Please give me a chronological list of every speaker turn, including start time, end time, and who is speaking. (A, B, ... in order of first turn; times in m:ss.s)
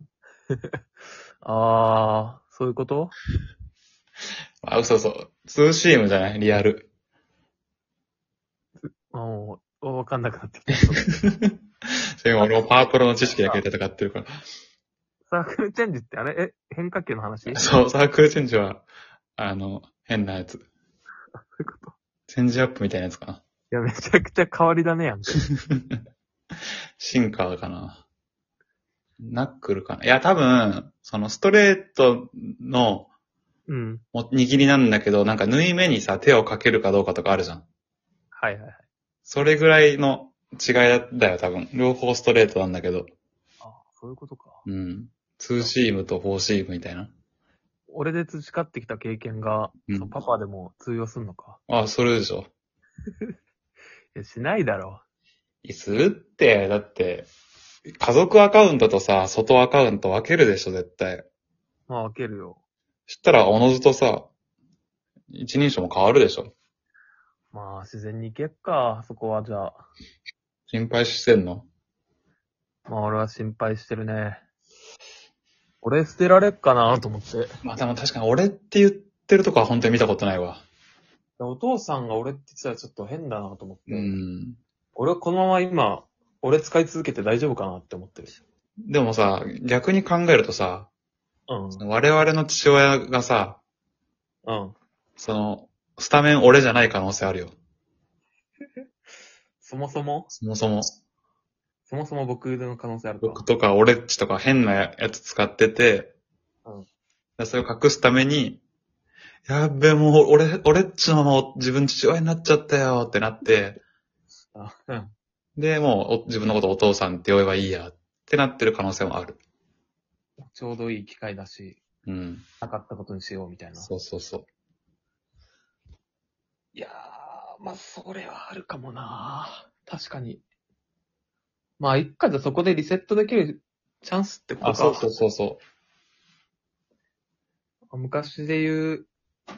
0:00.5-0:00.8 A
0:01.4-0:03.1 A
0:04.6-0:06.9 B
0:08.8-0:11.1 A
0:11.2-0:11.5 B
0:12.2-0:14.3 B
0:13.2-0:13.6 A
0:15.3-0:17.7 A
0:17.5-0:18.8 B
0:19.4-0:20.6 B
0:21.6-0:21.9 A
0:22.3-0:23.4 B
0:23.7-0:25.4 A
0:25.7-0:26.0 B
0:27.0-0:28.0 B
0:29.2-0:33.1 B
0:33.7-0:34.0 A
0:34.1-0:37.6 B
0:38.3-0:38.8 A
0:39.2-0:43.1 B
0:43.6-0:44.6 A
0:44.6-0:47.1 B
0:47.9-0:51.6 A
0:49.9-0:50.1 B
0:51.7-0:52.5 B
0:54.1-0:55.0 A
0:55.6-0:57.3 B
0:58.0-1:01.3 B
1:01.9-1:02.6 A
1:03.1-1:04.3 B
1:05.3-1:06.5 B
1:07.5-1:09.8 A
1:10.7-1:11.7 B
1:12.9-1:14.4 A
1:15.8-1:17.5 A
1:17.6-1:20.6 B
1:21.4-1:24.2 A
1:23.9-1:24.6 B
1:25.0-1:28.4 A
1:28.8-1:30.9 B
1:31.5-1:31.8 A
1:31.8-1:33.6 B
1:34.4-1:34.8 A
1:35.2-1:37.5 B
1:39.6-1:40.3 A
1:40.3-1:40.9 B
1:41.9-1:43.4 A
1:43.2-1:46.1 B
1:47.4-1:48.6 B
1:49.5-1:53.8 B
1:54.5-1:55.1 A
1:55.6-1:59.4 B
2:00.4-2:01.8 A
2:02.0-2:02.4 B
2:02.6-2:03.9 A
2:03.8-2:04.5 B
2:06.7-2:10.4 A
2:11.8-2:15.1 A
2:14.6-2:15.6 B
2:17.9-2:19.1 A